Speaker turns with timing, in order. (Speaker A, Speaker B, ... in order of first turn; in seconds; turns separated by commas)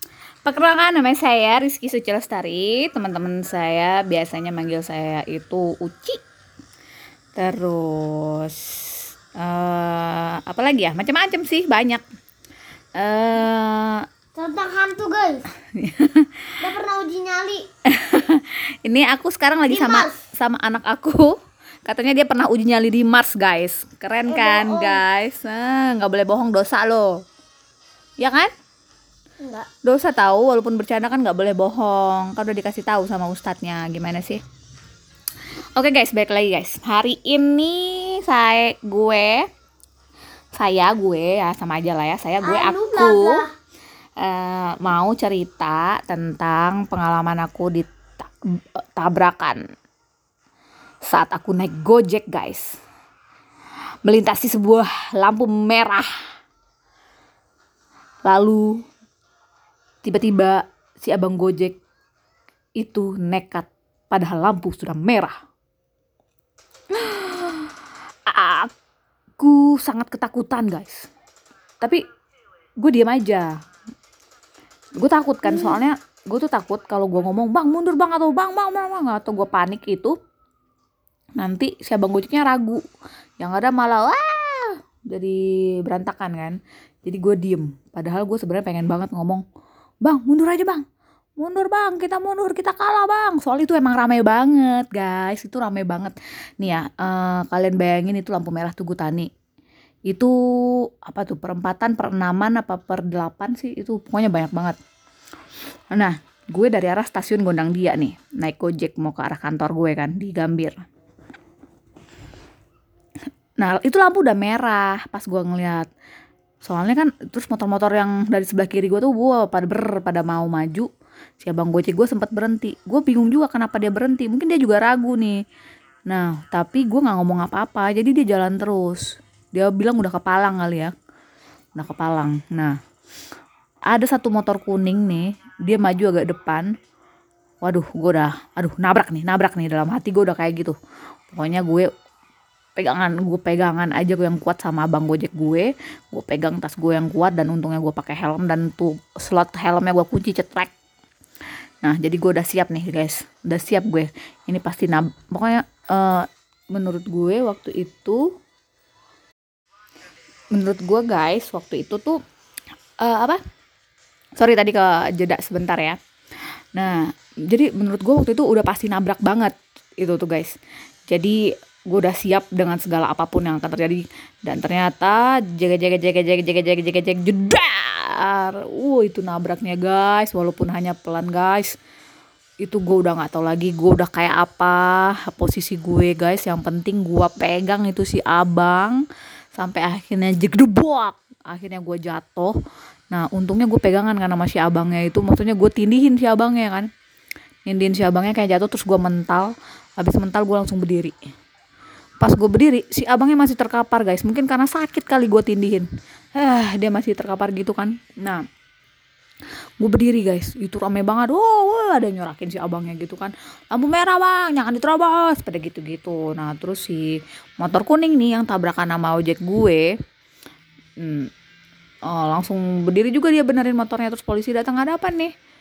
Speaker A: 0.5-6.2, Speaker A: 7.3-12.0, Speaker A: 13.0-14.0, Speaker B: 14.3-15.4, Speaker A: 15.8-16.3, Speaker B: 16.6-17.6, Speaker A: 17.9-21.3, Speaker B: 19.7-20.2, Speaker A: 21.9-27.2, Speaker B: 24.3-25.0, Speaker A: 28.2-28.5, Speaker B: 29.4-29.7, Speaker A: 29.8-34.4, Speaker A: 35.8-39.5, Speaker A: 40.6-43.4, Speaker B: 42.4-43.5, Speaker A: 44.2-49.6, Speaker A: 51.1-52.7, Speaker A: 54.0-56.1, Speaker A: 58.2-58.8, Speaker A: 60.0-61.8, Speaker A: 62.8-65.3, Speaker A: 66.9-67.7, Speaker A: 68.3-68.7, Speaker A: 69.4-71.1, Speaker A: 72.8-73.5, Speaker A: 75.0-80.2, Speaker B: 75.5-75.8, Speaker A: 81.4-82.8, Speaker A: 83.4-89.4, Speaker A: 90.0-90.8, Speaker A: 91.4-99.3, Speaker A: 100.1-104.8, Speaker A: 105.9-110.8, Speaker A: 113.6-115.9, Speaker A: 116.6-120.9, Speaker A: 121.4-125.4, Speaker A: 126.1-130.9, Speaker A: 131.8-132.8, Speaker A: 133.9-136.7, Speaker A: 137.6-140.8, Speaker A: 141.3-141.9, Speaker A: 142.8-150.7, Speaker A: 151.8-158.2, Speaker A: 160.5-162.2, Speaker A: 163.0-163.4, Speaker A: 164.4-166.0, Speaker A: 166.8-170.6, Speaker A: 171.1-171.4, Speaker A: 171.9-181.8, Speaker A: 182.6-189.0, Speaker A: 189.6-192.6, Speaker A: 193.1-196.9, Speaker A: 197.7-201.2, Speaker A: 202.2-208.4, Speaker A: 209.8-219.9, Speaker A: 221.0-221.3, Speaker A: 222.1-225.3